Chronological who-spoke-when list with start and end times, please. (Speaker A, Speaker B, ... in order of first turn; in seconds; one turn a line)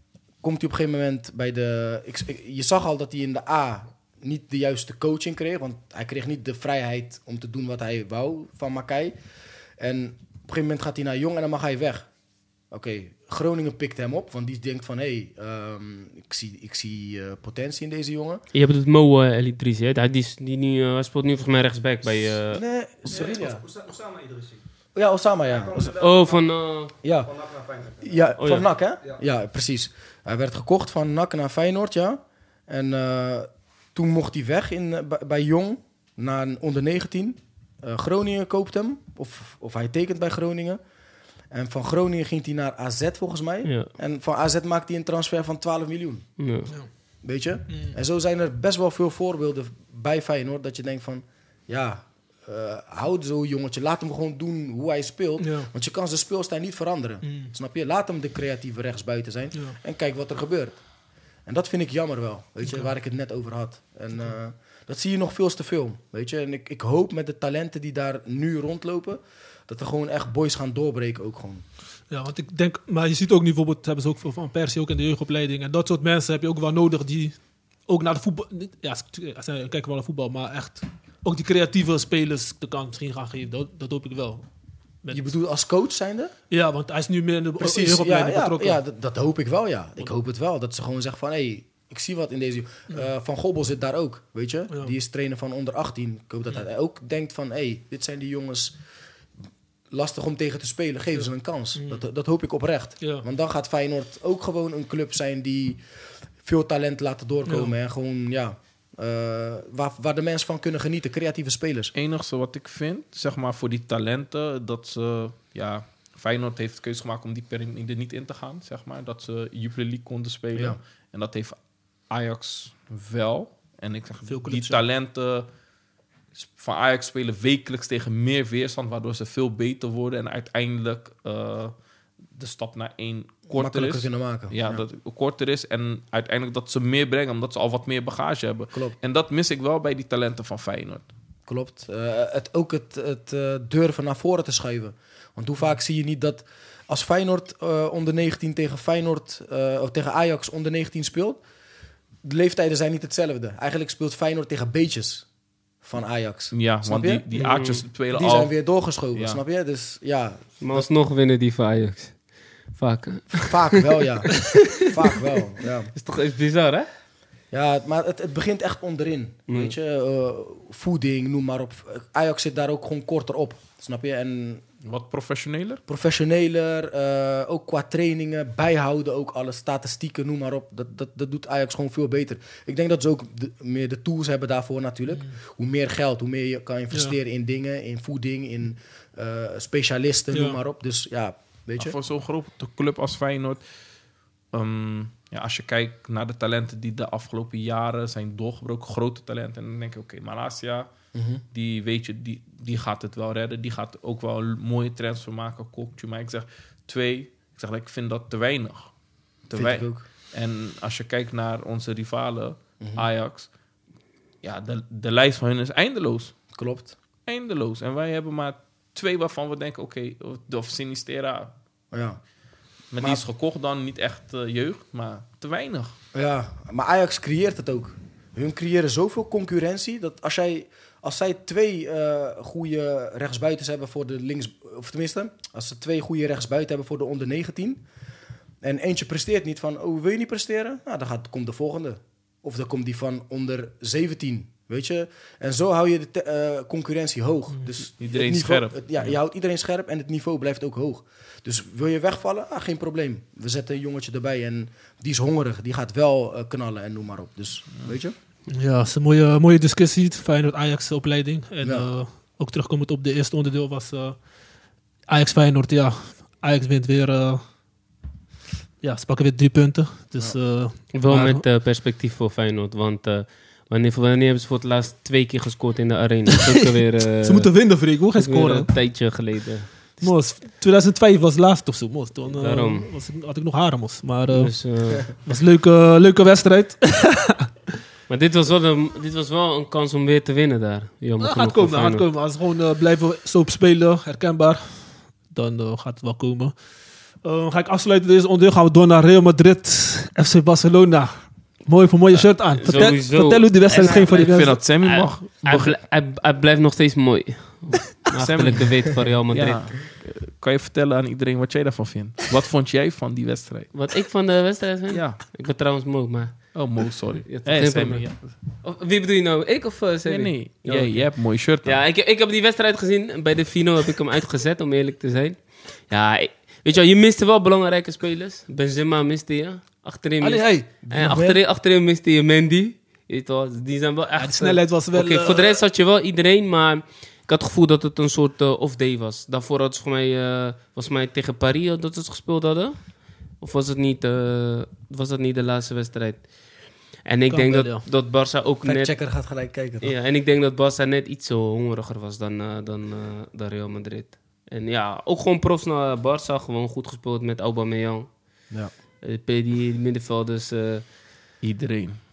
Speaker A: 0.4-9.2
Speaker A: 9.8-12.1
Speaker A: 12.7-18.4
Speaker B: 18.5-22.6
Speaker A: 22.5-23.6
Speaker C: 23.1-24.6
Speaker A: 24.9-25.9
Speaker C: 25.4-28.4
Speaker B: 26.0-26.9
Speaker A: 27.0-27.3
Speaker A: 28.0-40.8
Speaker B: 28.4-28.7
Speaker A: 41.5-46.3
Speaker B: 43.6-43.9
Speaker B: 46.4-46.7
Speaker A: 47.2-60.8
Speaker D: 47.7-47.9
Speaker D: 55.4-55.7
Speaker D: 57.2-57.5
Speaker A: 61.5-71.6
Speaker D: 72.1-84.5
Speaker D: 85.0-85.3
Speaker A: 85.1-86.3
Speaker D: 86.5-88.8
Speaker A: 87.6-98.8
Speaker A: 99.9-105.8
Speaker D: 101.8-102.0
Speaker A: 106.4-111.9
Speaker D: 107.5-107.8
Speaker E: 111.9-121.6
Speaker A: 120.5-120.8
Speaker E: 122.1-125.5
Speaker D: 124.3-124.8
Speaker E: 126.3-131.8
Speaker E: 132.3-141.1
Speaker A: 133.5-134.8
Speaker A: 138.7-139.0
Speaker A: 141.5-151.4
Speaker A: 152.2-155.3
Speaker A: 155.8-157.2
Speaker E: 156.5-158.5
Speaker B: 157.3-157.8
Speaker A: 158.1-160.9
Speaker E: 159.1-159.4
Speaker B: 160.6-162.2
Speaker B: 162.7-165.1
Speaker A: 163.3-165.9
Speaker B: 165.9-166.9
Speaker A: 167.5-174.6
Speaker B: 169.5-169.8
Speaker E: 174.8-175.8
Speaker A: 175.9-191.9
Speaker D: 186.9-187.2
Speaker D: 190.3-190.6
Speaker E: 191.8-193.6
Speaker E: 194.5-200.9
Speaker A: 201.1-201.4
Speaker E: 201.5-208.9
Speaker E: 209.5-213.5
Speaker A: 209.5-210.1
Speaker A: 212.8-213.1
Speaker E: 214.4-216.3
Speaker A: 216.5-216.9
Speaker E: 217.3-221.5
Speaker A: 221.9-222.2
Speaker E: 222.9-225.9
Speaker A: 223.0-223.2
Speaker A: 226.1-237.8
Speaker A: 238.6-258.2
Speaker E: 248.0-249.2
Speaker D: 258.5-264.2
Speaker A: 261.6-261.9
Speaker D: 265.1-267.4
Speaker D: 268.8-271.4
Speaker B: 270.9-280.2
Speaker D: 277.2-278.7
Speaker D: 280.0-287.5
Speaker B: 282.3-282.9
Speaker B: 284.3-285.2
Speaker B: 288.1-292.1
Speaker D: 291.2-296.6
Speaker D: 297.2-304.6
Speaker B: 302.6-309.8
Speaker E: 304.1-305.8
Speaker E: 308.1-313.7
Speaker B: 313.7-316.7
Speaker E: 314.9-315.2
Speaker E: 316.5-318.3
Speaker B: 317.3-348.9
Speaker E: 320.1-321.8
Speaker D: 330.2-331.3
Speaker A: 330.9-331.3
Speaker D: 334.1-335.6
Speaker D: 347.3-347.8
Speaker A: 348.6-349.9
Speaker B: 349.8-358.1
Speaker B: 359.0-360.9
Speaker E: 361.4-362.0